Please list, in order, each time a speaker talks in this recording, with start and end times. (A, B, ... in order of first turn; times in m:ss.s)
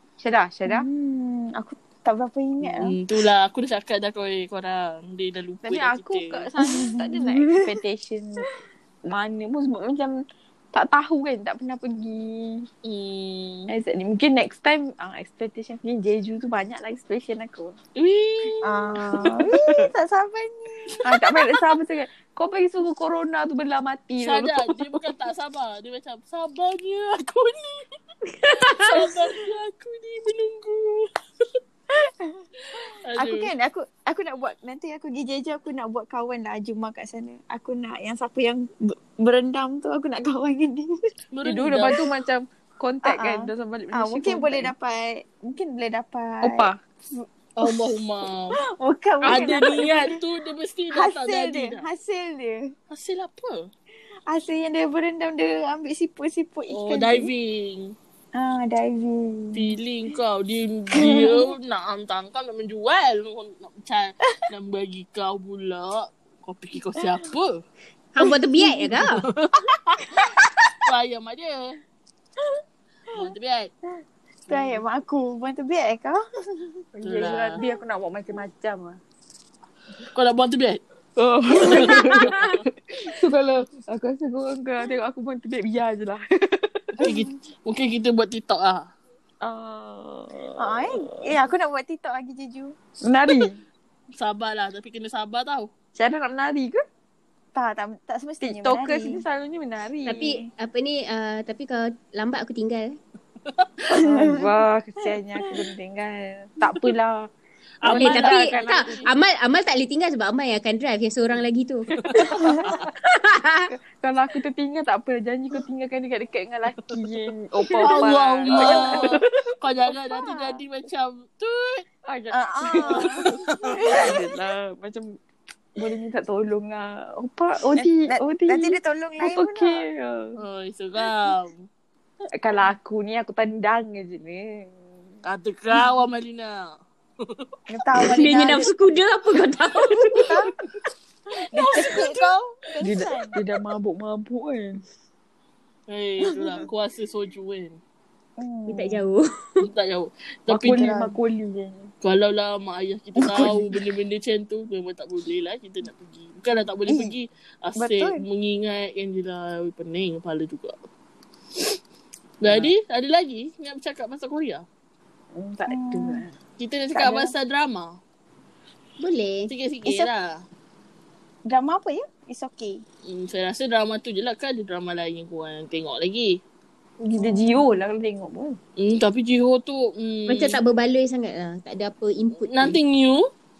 0:00.2-0:00.8 A
0:00.7-0:02.9 B
0:02.6-0:06.4 C
0:05.6-0:08.4 A
0:06.6-0:07.7 B
0:09.0-0:10.2 A
0:10.7-0:12.7 A
0:12.8-0:13.7 C
0:13.7-0:17.8 A
0:18.0-0:19.8 C
0:18.6-0:21.2 B
0:21.0-0:25.1 A
0:24.2-0:27.8 C
0:28.3-0:29.0 D
0:28.7-0:31.1 C
0:31.9-0:40.9 B
0:32.8-0:33.5 C
0:41.3-0:42.0 C
0:41.4-0:44.7 A
0:43.0-0:47.9 B
0:46.4-0:46.8 A
0:47.6-0:48.6 C
0:48.5-0:50.2 B
0:49.2-0:51.9 C
0:50.9-0:52.7 B
0:52.9-0:53.7 C
0:54.3-0:57.3 B
0:56.7-0:57.9 C
0:58.3-0:59.8 B
0:59.5-1:07.6 C
1:00.9-1:01.5 B
1:08.1-1:09.2 D
1:08.2-1:08.9 B
1:09.2-1:10.3 C
1:10.8-1:11.8 C
1:13.1-1:13.7 C
1:14.5-1:14.8 C
1:14.5-1:16.7 B
1:16.9-1:19.0 A
1:17.0-1:17.6 C
1:20.1-1:20.8 C
1:21.2-1:27.1 A
1:21.5-1:22.6 C
1:21.6-1:22.3 B
1:27.0-1:28.9 C
1:27.0-1:27.3 B
1:29.4-1:31.1 A
1:30.6-1:32.7 B
1:33.0-1:33.6 A
1:34.2-1:35.7 C
1:35.9-1:36.8 A
1:37.5-1:39.2 B
1:38.4-1:40.3 A
1:40.0-1:43.0 D
1:43.9-1:44.5 B
1:43.9-1:47.3 A
1:47.8-1:49.1 C
1:47.8-1:49.0 A
1:47.8-1:53.7 D
1:52.0-1:52.9 A
1:52.3-1:52.8 B
1:53.7-1:59.5 A
1:57.8-2:01.8 C
1:58.0-1:59.2 B
2:00.1-2:00.6 B
2:02.0-2:05.2 A
2:02.3-2:04.3 B
2:02.8-2:04.1 C
2:05.8-2:10.4 A
2:08.1-2:09.8 B
2:10.4-2:11.7 C
2:12.4-2:14.8 A
2:15.2-2:17.5 C
2:17.7-2:18.7 B
2:18.1-2:20.3 D
2:20.2-2:20.5 B
2:21.5-2:23.4 B
2:21.6-2:22.1 C
2:22.8-2:24.8 A
2:25.9-2:27.8 C
2:26.3-2:26.6 B
2:28.4-2:29.0 B
2:28.7-2:29.6 D
2:29.6-2:30.9 C
2:30.5-2:31.9 A
2:30.6-2:31.1 B
2:32.0-2:40.8 C
2:33.2-2:33.6 A
2:36.9-2:37.1 B
2:37.8-2:38.2 B
2:42.4-2:44.6 C
2:45.3-2:46.3 A
2:45.7-2:46.2 B
2:46.6-2:48.0 C
2:46.9-2:47.3 B
2:49.0-2:49.5 D
2:49.5-2:50.4 C
2:49.8-2:50.1 B
2:51.4-2:52.8 B
2:53.0-2:56.4 C
2:57.0-2:58.6 A
2:57.2-2:57.6 B
2:58.8-3:00.6 C
3:00.3-3:02.8 D
3:02.5-3:03.2 C